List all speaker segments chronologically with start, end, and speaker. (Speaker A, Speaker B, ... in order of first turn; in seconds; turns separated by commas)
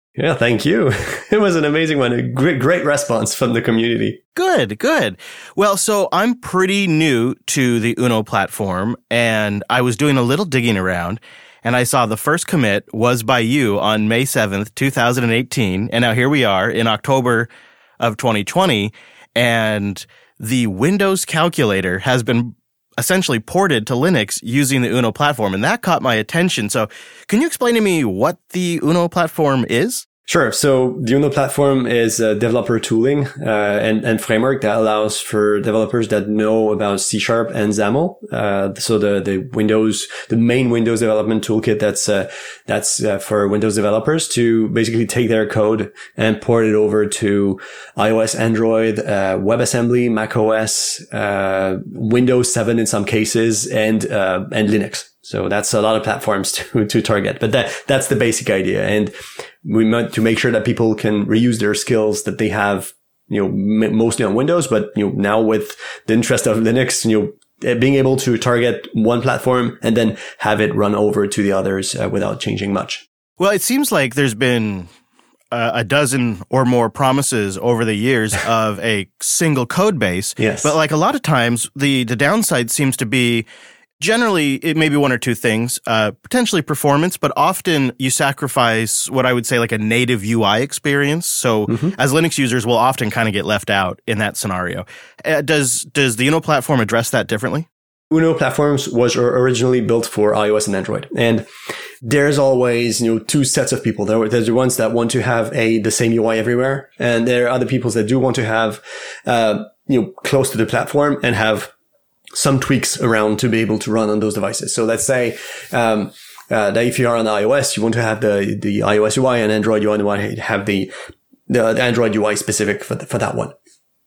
Speaker A: 0.2-4.2, Speaker B: 4.4-30.1, Speaker A: 30.3-59.1, Speaker A: 59.6-73.0, Speaker B: 73.4-74.9, Speaker B: 75.5-83.5, Speaker A: 80.4-80.7, Speaker B: 84.0-97.7, Speaker A: 91.7-92.0, Speaker A: 98.1-101.5, Speaker A: 102.0-111.7, Speaker A: 112.3-120.9, Speaker A: 121.5-123.5